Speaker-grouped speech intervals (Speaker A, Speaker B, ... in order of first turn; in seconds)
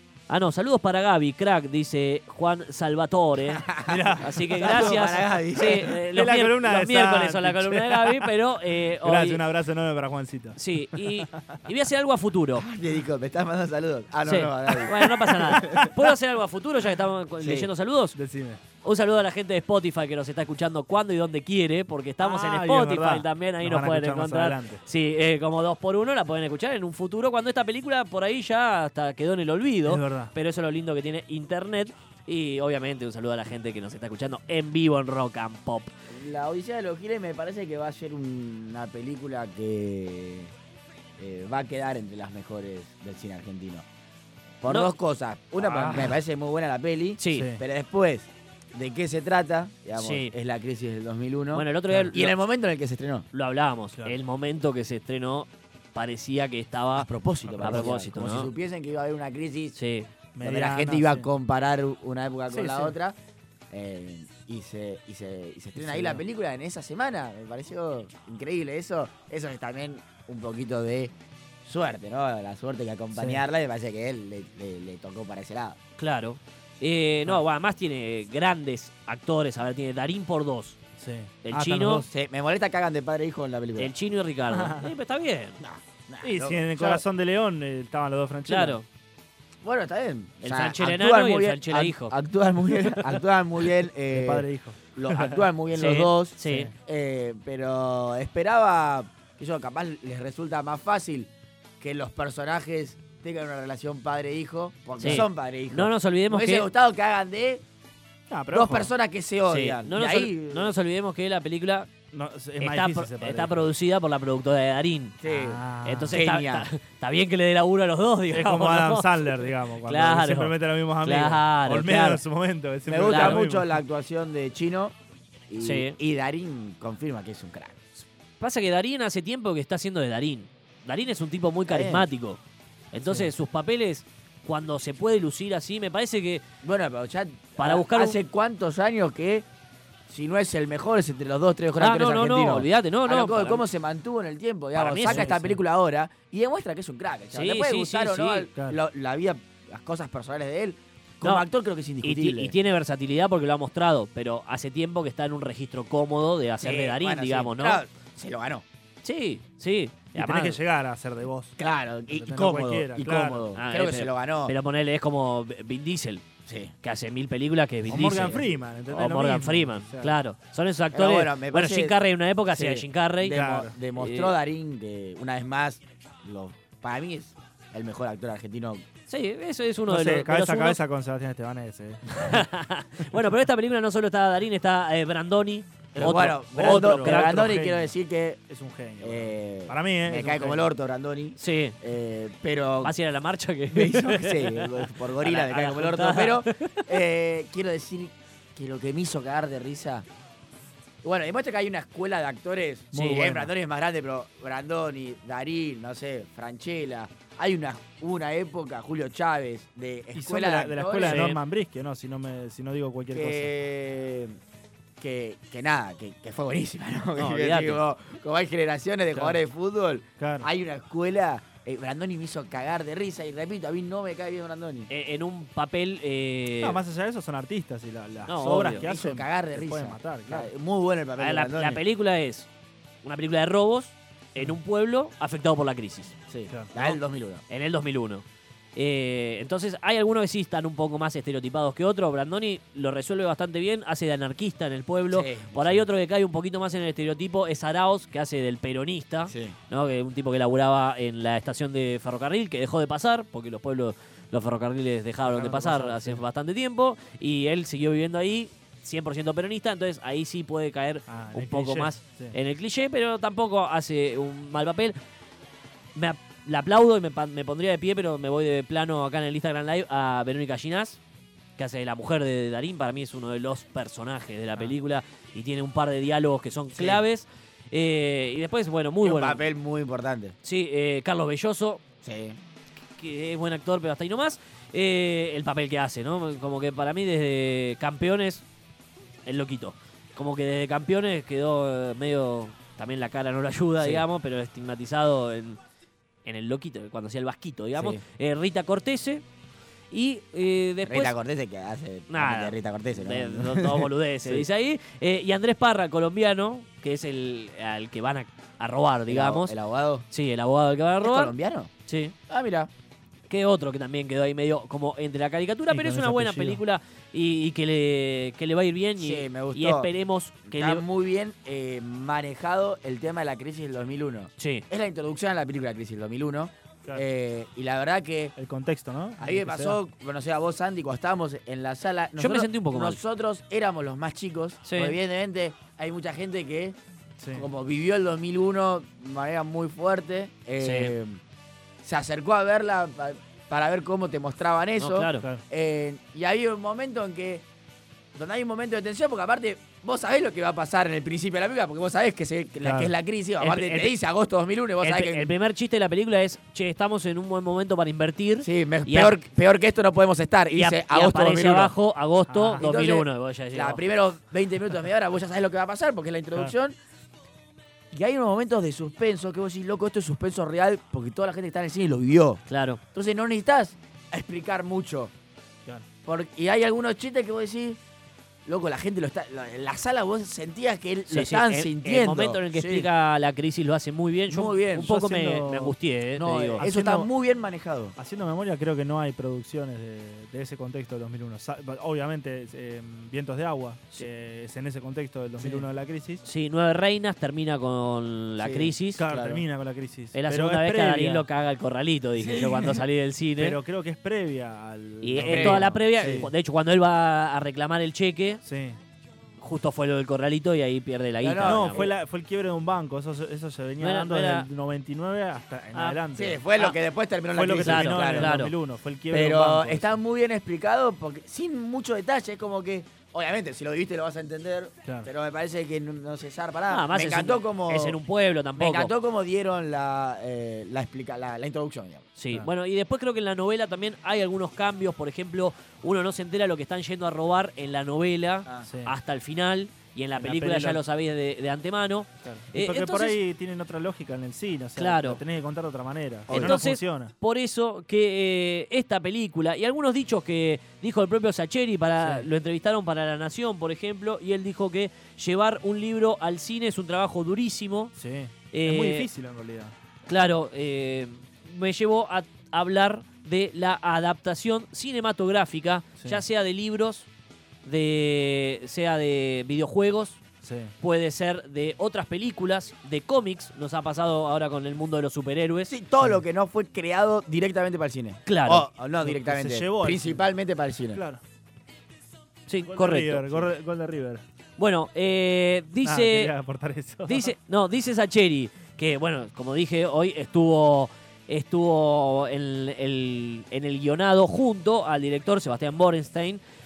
Speaker A: 0.3-3.7, 4.2-9.4, 10.6-12.6, 14.2-18.1, 18.8-35.9, 45.6-46.1, 47.2-47.5, 50.0-50.3, 51.5-52.3, 53.3-57.1, 57.6-58.5, 59.8-60.1, 76.0-80.8, 81.4-82.0, 83.8-85.6, 88.5-88.8, 90.4-92.2, 95.7-96.7, 105.0-106.7, 109.5-111.9, 112.6-115.2, 115.8-122.2, 123.0-123.4, 125.6-126.0, 128.4-132.4, 132.9-136.4, 137.6-138.2, 141.8-143.6, 144.7-145.3, 147.3-148.5, 152.0-157.8, 159.0-160.6, 163.6-166.2, 166.8-173.4, 173.9-174.3, 179.1-180.8, 182.2-187.6, 191.4-191.8, 192.8-196.8, 202.9-203.3, 211.1-211.4, 217.2-217.8, 224.9-226.8, 228.3-228.9, 231.2-232.5, 233.0-236.1, 237.5-238.2, 238.8-265.0, 265.9-271.0, 271.6-279.4, 280.4-281.8, 282.9-288.4, 289.2-295.6, 296.2-299.2, 299.9-301.1, 302.1-309.6, 310.1-311.3, 311.9-312.1, 313.3-320.8, 324.4-324.6, 332.2-333.0, 334.6-334.9, 340.6-340.9, 344.8-345.2, 353.4-353.9, 354.8-359.1, 360.5-363.8, 372.5-372.8, 381.1-386.7, 396.2-399.0, 400.1-403.6, 405.0-408.4, 409.4-411.9, 413.8-414.5, 417.6-418.5, 426.7-428.9, 432.2-443.2, 444.8-445.2, 446.3-457.9, 458.5-459.1, 460.1-467.1, 467.6-470.2, 470.8-475.7, 478.2-478.7, 482.5-483.4, 484.6-486.3, 487.1-496.4
Speaker B: 3.5-5.9, 12.6-15.7, 17.4-17.7, 36.1-40.5, 41.2-43.9, 44.6-53.2, 57.0-59.8, 60.4-63.2, 63.7-71.1, 71.6-75.8, 82.1-83.9, 85.6-87.0, 89.6-107.6, 108.5-110.7, 115.2-115.6, 116.1-116.7, 122.8-124.9, 125.5-127.8, 131.7-132.1, 136.6-139.4, 140.1-152.5, 156.6-158.6, 161.6-164.5, 166.4-166.7, 170.9-178.8, 185.9-188.4, 189.0-192.9, 193.7-200.1, 201.0-211.3, 213.1-214.4, 215.0-224.9, 228.4-231.8, 236.3-237.4, 245.1-245.9, 249.3-249.6, 276.7-277.0, 279.0-280.3, 282.0-282.4, 293.8-294.0, 297.8-298.0, 300.8-304.4, 309.1-310.1, 311.0-311.7, 312.3-312.7, 319.0-319.9, 320.5-328.3, 329.2-336.8, 337.3-341.2, 341.8-347.4, 348.1-355.3, 358.4-361.7, 362.6-366.8, 367.9-372.4, 372.9-375.1, 376.1-377.8, 378.4-382.9, 384.3-384.9, 386.2-387.9, 398.4-399.4, 402.2-402.8, 405.2-406.3, 411.2-411.9, 416.1-418.4, 419.1-428.0, 428.6-432.1, 446.3-446.6, 475.7-481.0
Speaker C: 3.8-8.4, 8.9-11.6, 15.2-16.0, 18.1-18.6, 22.2-24.8, 29.9-30.3, 45.7-46.1, 47.3-47.6, 51.9-52.2, 57.4-57.9, 60.3-61.3, 62.6-62.8, 65.8-66.2, 73.1-73.4, 81.0-82.1, 84.5-84.9, 86.2-88.8, 94.1-95.4, 96.4-96.7, 108.3-108.9, 112.1-113.7, 115.2-116.2, 118.3-123.7, 145.0-145.6, 160.2-161.6, 162.1-163.5, 167.9-170.2, 173.3-173.7, 179.9-182.4, 186.0-187.9, 188.5-190.7, 202.9-203.5, 210.2-213.5, 219.1-219.4, 220.2-220.5, 226.6-230.5, 236.5-236.8, 255.2-256.2, 261.1-262.4, 315.7-316.6, 328.4-329.8, 337.2-337.5, 352.6-352.9, 362.3-362.7, 384.8-385.7, 386.6-387.1, 388.0-396.2, 399.0-401.2, 403.4-406.3, 408.4-408.8, 411.4-416.4, 417.3-419.9, 438.6-438.9, 440.2-440.8, 442.2-447.1, 452.0-452.3, 457.9-459.7, 470.4-470.7, 479.0-480.2, 480.9-481.2, 482.7-484.2, 485.8-487.3